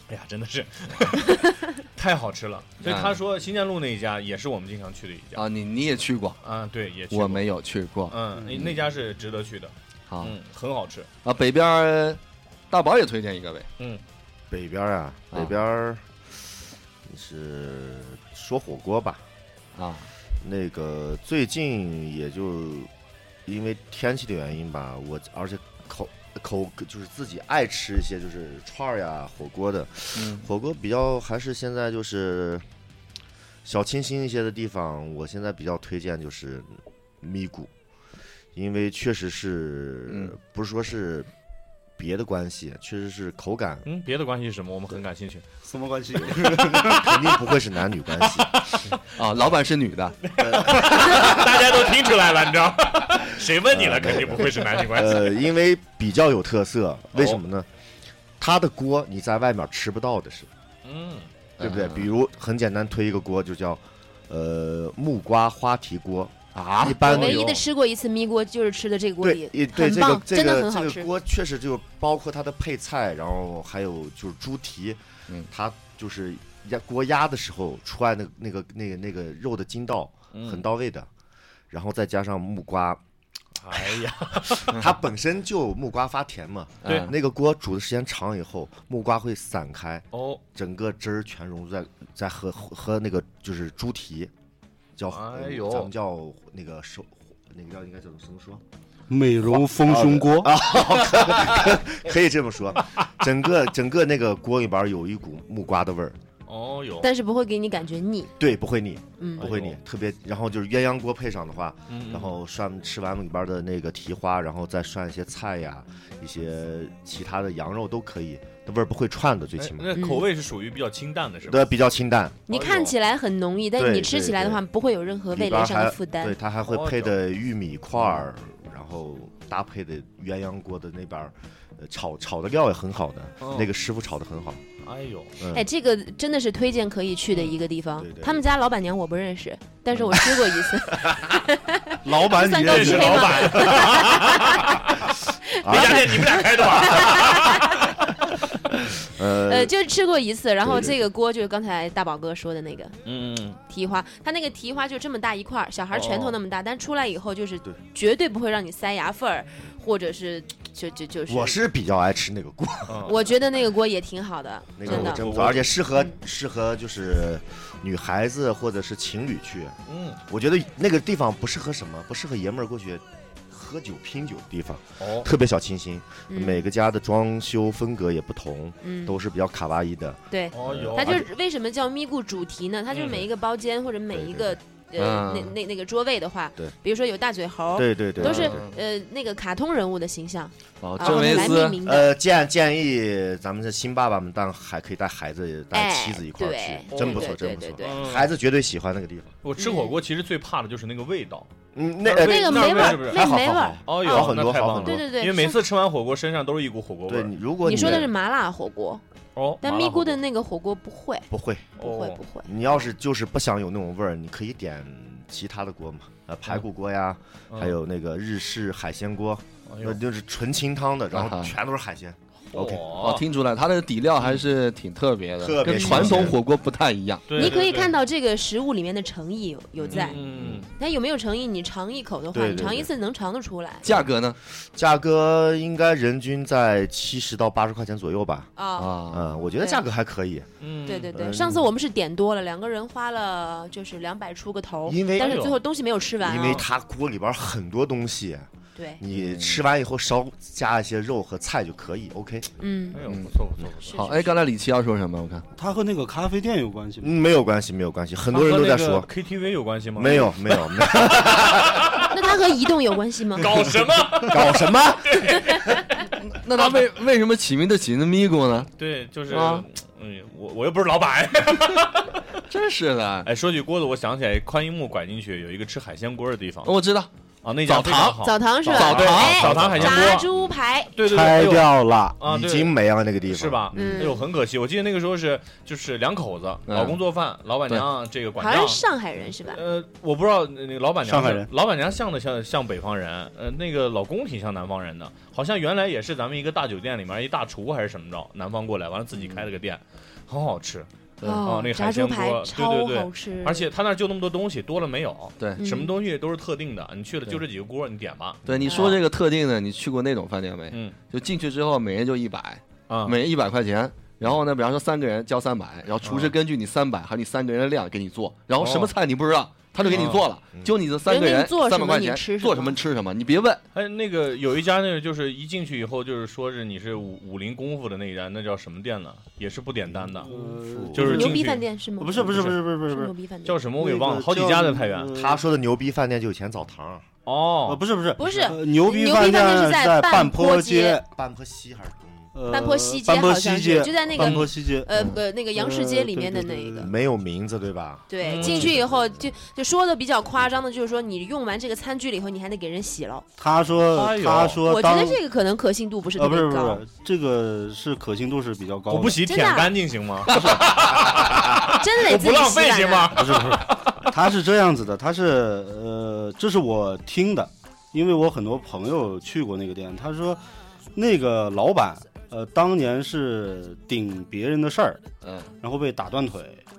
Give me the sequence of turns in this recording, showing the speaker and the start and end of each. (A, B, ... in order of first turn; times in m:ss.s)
0:00.1-0:05.4 A
0:02.8-0:03.2 B
0:05.4-0:06.4 B
0:06.4-0:07.4 A
0:07.1-0:08.8 B
0:08.1-0:11.1 A
0:10.1-0:10.4 B
0:11.2-0:13.7 B
0:14.5-0:16.2 C
0:17.1-0:19.2 C
0:19.8-0:20.1 B
0:20.4-0:22.9 C
0:23.5-0:32.6 C
0:30.2-0:30.5 B
0:33.6-0:37.7 C
0:38.5-0:41.3 C
0:42.0-0:43.9 C
0:43.9-0:45.5 A
0:45.6-0:47.0 D
0:46.4-0:47.3 A
0:46.6-0:48.7 C
0:48.7-0:49.0 A
0:49.1-0:50.2 B
0:50.3-0:55.4 A
0:50.4-0:51.5 C
0:53.7-0:57.7 C
0:57.2-0:57.4 A
0:58.4-1:00.5 C
1:00.8-1:01.3 A
1:01.6-1:02.1 B
1:01.6-1:07.6 C
1:06.6-1:07.0 B
1:07.0-1:11.1 E
1:07.0-1:07.6 A
1:09.2-1:21.1 C
1:20.3-1:20.6 A
1:21.7-1:23.0 C
1:23.6-1:24.8 A
1:24.5-1:34.3 C
1:26.8-1:27.1 A
1:26.8-1:27.1 B
1:30.1-1:30.4 A
1:35.0-1:38.6 C
1:35.1-1:35.9 A
1:39.1-1:40.6 D
1:39.6-1:46.2 C
1:41.2-1:41.7 A
1:46.5-1:47.1 A
1:47.0-1:48.3 E
1:48.4-2:00.0 C
1:49.2-1:49.5 E
1:49.4-1:49.8 A
1:51.9-1:52.3 A
1:59.6-2:01.7 A
2:00.0-2:00.2 E
2:01.4-2:02.4 C
2:02.5-2:06.4 E
2:02.5-2:02.9 A
2:03.8-2:04.6 C
2:05.3-2:14.6 C
2:06.6-2:07.2 A
2:13.4-2:13.7 A
2:14.8-2:15.4 A
2:15.4-2:15.7 C
2:15.5-2:28.0 E
2:18.0-2:18.4 C
2:21.0-2:21.3 C
2:22.0-2:23.7 D
2:22.6-2:28.1 A
2:25.6-2:27.0 C
2:29.0-2:29.7 C
2:29.3-2:33.0 E
2:30.6-2:31.0 C
2:33.1-2:33.6 A
2:33.7-2:41.6 E
2:35.9-2:36.4 A
2:41.3-2:43.1 C
2:42.9-2:43.2 A
2:43.0-2:45.2 E
2:44.8-3:01.2 C
2:44.9-2:45.7 A
2:49.9-2:50.2 A
2:55.0-2:55.3 A
2:56.3-2:56.7 E
2:58.8-2:59.2 E
3:00.3-3:12.2 E
3:00.5-3:01.2 A
3:02.9-3:03.2 A
3:04.1-3:04.6 C
3:05.0-3:05.6 B
3:07.8-3:08.7 C
3:08.2-3:08.8 B
3:10.8-3:11.8 B
3:11.0-3:19.3 C
3:15.7-3:18.0 E
3:16.9-3:18.3 A
3:19.4-3:21.5 A
3:19.6-3:20.0 E
3:21.8-3:25.0 C
3:22.0-3:23.2 A
3:22.2-3:25.6 E
3:23.9-3:28.1 A
3:27.1-3:28.1 C
3:27.6-3:29.0 E
3:29.4-3:30.2 A
3:29.6-3:32.5 E
3:31.3-3:31.8 C
3:31.8-3:32.2 A
3:32.4-3:42.9 C
3:37.5-3:37.8 A
3:39.7-3:40.0 A
3:41.1-3:41.6 B
3:42.5-3:43.2 A
3:43.0-3:47.6 B
3:45.4-3:46.4 C
3:45.8-3:46.3 A
3:47.3-3:48.0 A
3:47.4-3:50.2 E
3:49.9-3:50.7 A
3:50.0-3:50.6 B
3:50.8-3:53.9 E
3:52.3-3:52.9 C
3:53.8-3:54.4 B
3:53.9-3:58.5 C
3:58.6-3:59.0 E
3:58.8-3:59.3 B
3:59.1-4:00.5 C
3:59.5-3:59.8 E
4:00.6-4:01.2 A
4:00.9-4:06.6 E
4:01.1-4:01.6 C
4:04.9-4:05.5 C
4:05.2-4:05.6 A
4:06.2-4:08.5 C
4:08.8-4:09.0 E
4:09.0-4:12.5 C
4:09.1-4:09.6 B
4:12.6-4:13.0 E
4:12.9-4:14.3 A
4:13.1-4:13.3 B
4:13.8-4:14.3 E
4:13.9-4:15.5 B
4:15.6-4:17.1 D
4:17.0-4:19.1 C
4:18.3-4:22.1 A
4:20.0-4:22.0 C
4:22.1-4:23.5 E
4:23.4-4:26.9 A
4:24.2-4:25.4 C
4:26.0-4:28.7 B
4:28.8-4:32.2 A
4:29.3-4:29.6 B
4:32.5-4:33.3 B
4:33.2-4:36.7 A
4:36.6-4:37.1 B
4:37.4-4:40.3 A
4:37.7-4:40.2 B
4:38.2-4:41.0 E
4:41.0-4:42.7 A
4:41.1-4:42.1 D
4:41.3-4:41.6 C
4:42.2-4:44.1 C
4:43.3-4:48.8 A
4:43.7-4:44.3 E
4:46.7-4:47.0 B
4:48.4-4:49.6 E
4:49.5-5:00.9 A
4:51.0-4:51.5 D
4:59.2-4:59.4 B
5:01.2-5:03.7 E
5:01.4-5:08.5 A
5:05.6-5:05.9 E
5:08.5-5:23.6 B
5:08.7-5:09.0 E
5:12.9-5:13.2 A
5:16.0-5:16.4 A
5:18.6-5:18.9 A
5:19.8-5:20.1 E
5:19.8-5:20.2 A
5:21.1-5:22.8 E
5:23.8-5:30.3 A
5:30.2-5:31.5 D
5:30.2-5:31.2 C
5:30.9-5:31.6 A
5:31.0-5:33.6 E
5:32.0-5:33.2 D
5:32.2-5:32.6 A
5:33.5-5:35.1 A
5:33.8-5:35.4 D
5:35.2-5:37.1 C
5:37.3-5:38.5 A
5:37.6-5:41.1 D
5:38.2-5:41.0 E
5:41.1-5:42.3 C
5:42.3-5:46.9 D
5:42.5-5:46.9 E
5:44.2-5:44.5 A
5:46.8-5:49.3 C
5:48.1-5:53.3 E
5:48.2-5:48.7 A
5:53.4-5:55.2 D
5:53.8-5:54.6 A
5:54.6-5:56.8 E
5:56.2-5:59.3 D
5:58.9-6:04.0 A
5:59.2-5:59.8 E
6:00.3-6:00.8 D
6:00.3-6:00.6 B
6:01.5-6:03.3 E
6:03.2-6:10.4 D
6:11.0-6:15.0 D
6:15.2-6:15.5 B
6:15.6-6:16.6 D